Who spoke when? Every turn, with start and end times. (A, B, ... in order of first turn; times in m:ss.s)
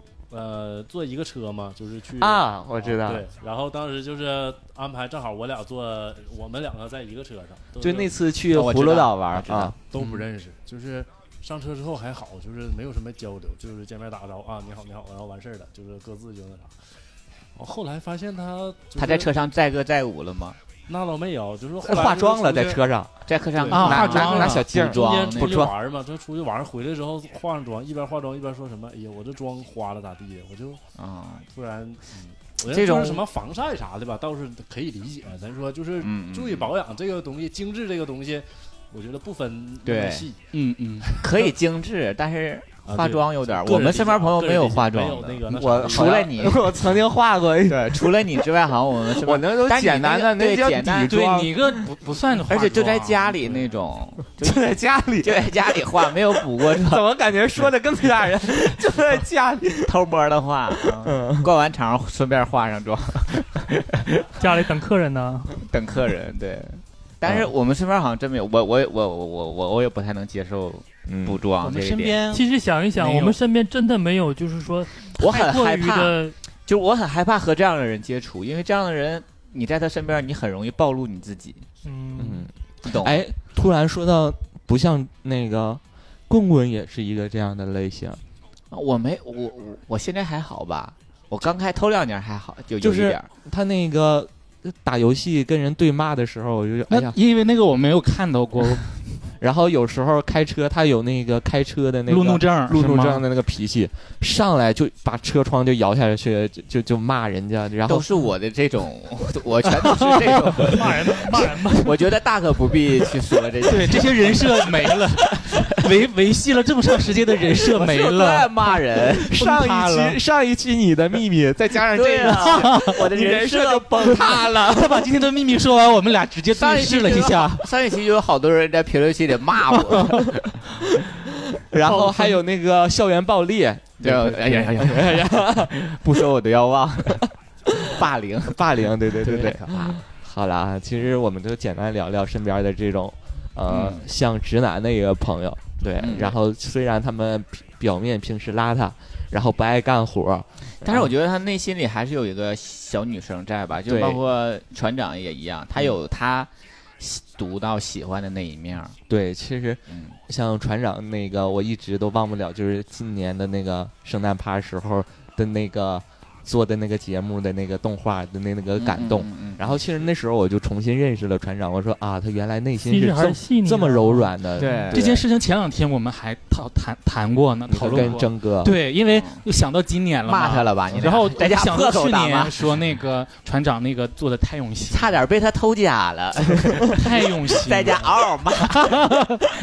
0:00.3-0:08.2 A
0:02.2-0:03.2 B
0:07.8-0:09.7 B
0:08.5-0:09.8 C
0:09.9-0:16.8 A
0:10.0-0:10.2 D
0:17.5-0:19.3 A
0:19.0-0:20.6 C
0:20.9-0:22.8 A
0:21.8-0:23.1 B
0:23.2-0:25.6 C
0:23.5-0:30.8 A
0:23.7-0:24.7 D
0:23.7-0:25.7 B
0:31.0-0:31.4 C
0:31.5-0:40.4 A
0:32.7-0:33.2 C
0:36.0-0:36.7 C
0:39.8-0:40.2 C
0:40.5-0:41.2 D
0:41.0-0:41.5 A
0:41.2-0:46.7 C
0:42.8-0:46.3 A
0:45.5-0:48.4 B
0:47.6-0:51.1 C
0:49.1-0:51.8 B
0:51.1-0:53.3 D
0:52.5-0:54.6 C
0:54.4-0:55.5 B
0:55.2-0:57.0 C
0:56.4-0:59.9 B
0:59.8-1:04.0 C
1:00.8-1:01.5 B
1:04.4-1:05.6 E
1:05.6-1:12.2 C
1:07.2-1:07.5 B
1:11.1-1:11.4 B
1:11.6-1:13.4 D
1:12.3-1:16.4 E
1:15.1-1:21.6 C
1:21.8-1:22.4 E
1:22.2-1:28.2 B
1:22.8-1:23.2 C
1:28.7-1:33.3 C
1:32.8-1:37.2 B
1:36.9-1:39.2 D
1:39.4-1:48.0 B
1:42.1-1:43.2 D
1:47.8-1:54.7 C
1:49.8-1:50.7 D
1:50.6-1:52.0 E
1:53.7-2:00.2 D
1:57.8-1:59.3 C
1:59.3-2:05.1 B
2:01.9-2:04.4 C
2:02.6-2:02.9 D
2:04.5-2:07.7 D
2:06.5-2:10.2 C
2:09.9-2:10.2 D
2:11.0-2:15.8 B
2:14.0-2:17.3 C
2:17.7-2:18.0 B
2:17.9-2:20.0 C
2:18.5-2:31.1 B
2:23.7-2:24.0 C
2:26.0-2:26.4 C
2:30.8-2:39.0 C
2:33.9-2:34.2 B
2:39.1-2:55.2 B
2:39.9-2:40.2 C
2:48.8-2:49.8 C
2:52.8-2:54.3 E
2:54.6-2:55.1 C
2:54.9-3:05.1 D
2:57.7-2:58.7 B
2:59.1-2:59.4 C
3:00.3-3:02.5 C
3:04.9-3:07.0 C
3:07.0-3:09.3 D
3:07.6-3:09.4 C